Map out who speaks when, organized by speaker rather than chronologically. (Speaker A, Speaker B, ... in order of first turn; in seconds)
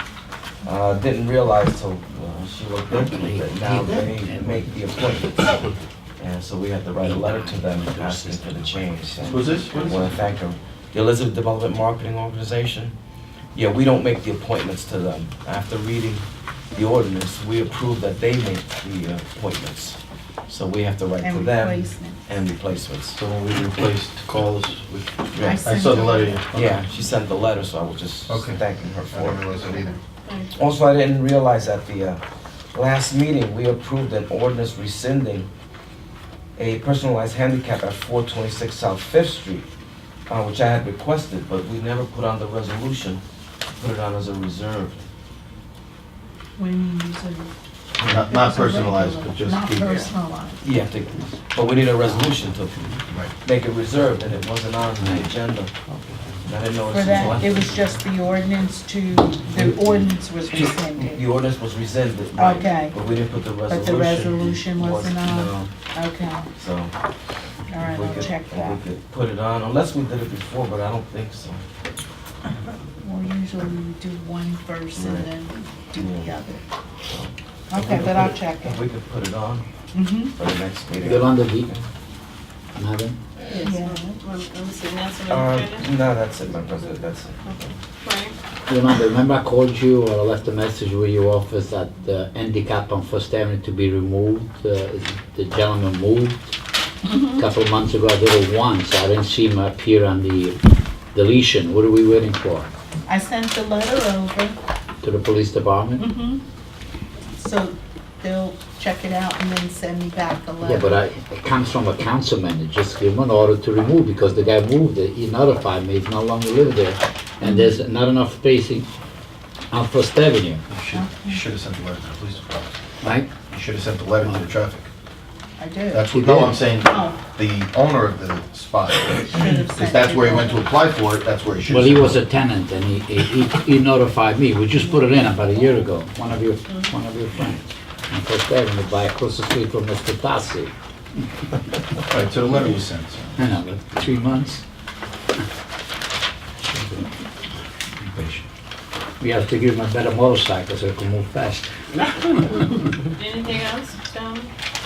Speaker A: 0.6-5.6, 6.2-12.9, 13.5-20.0, 20.5-23.2, 25.3-25.6, 26.5-29.9, 30.5-32.2, 32.7-35.5, 36.6-39.7, 40.3-43.2, 43.8-45.0, 50.6-52.8, 53.4-55.7, 56.5-58.0, 61.0-65.7, 66.6-66.9, 67.8-71.6, 74.9-75.3, 76.0-76.3, 77.1-79.7, 80.3-81.8, 85.3-87.7
Speaker B: 3.2-4.8, 7.0-9.3, 81.0-81.7, 82.8-83.2, 88.7-96.4, 97.3-100.6, 101.1-102.7, 105.0-106.0, 110.6-118.9, 119.7-120.6, 123.0-123.3, 126.1-126.6, 131.7-140.7, 143.4-144.6, 146.6-147.1, 148.0-148.4, 149.2-152.7
Speaker C: 9.2-9.9, 23.1-26.8, 28.3-30.0, 48.0-50.1, 120.7-122.7, 123.4-124.9, 125.9-132.2, 142.1-143.5
Speaker D: 21.2-22.2, 25.4-26.4, 46.6-47.5, 48.1-50.6, 56.9-61.3, 62.4-63.0, 63.7-66.5, 67.7-68.8, 73.0-76.6, 77.7-78.8, 79.9-80.3, 83.5-84.2, 103.1-104.6, 106.0-106.4, 107.3-111.0, 120.9-121.4, 125.6-126.1, 126.7-127.2, 129.2-130.7
Speaker E: 83.6-85.9, 88.0-88.3, 153.2-154.5